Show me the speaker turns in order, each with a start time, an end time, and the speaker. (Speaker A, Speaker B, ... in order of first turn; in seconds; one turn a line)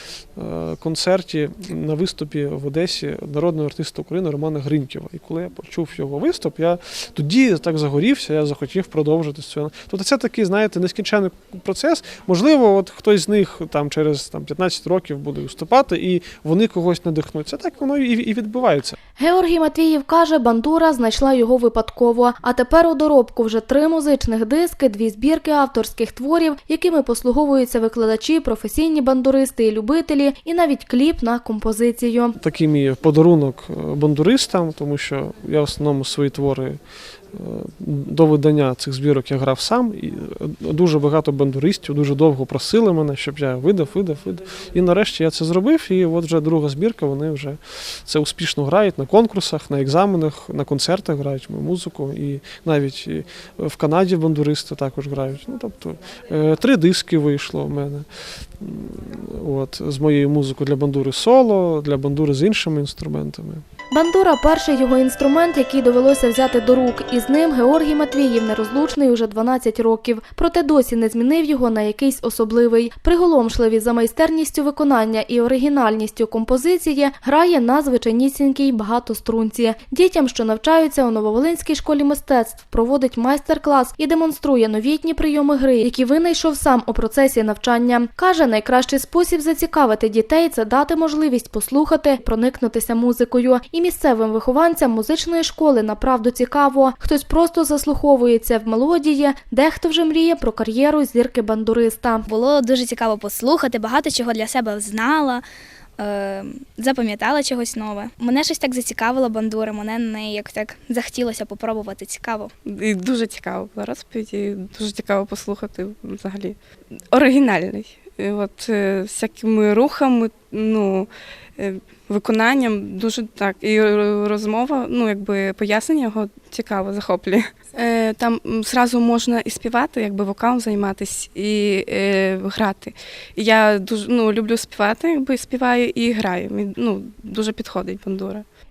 Speaker A: 0.3-18.9
Speaker B: 19.2-32.4
Speaker A: 32.4-36.8
Speaker A: 37.3-58.1
Speaker A: 58.6-63.6
Speaker B: 63.9-102.2
Speaker C: 102.2-105.5
Speaker C: 106.0-112.5
Speaker D: 112.7-116.5
Speaker D: 117.1-138.4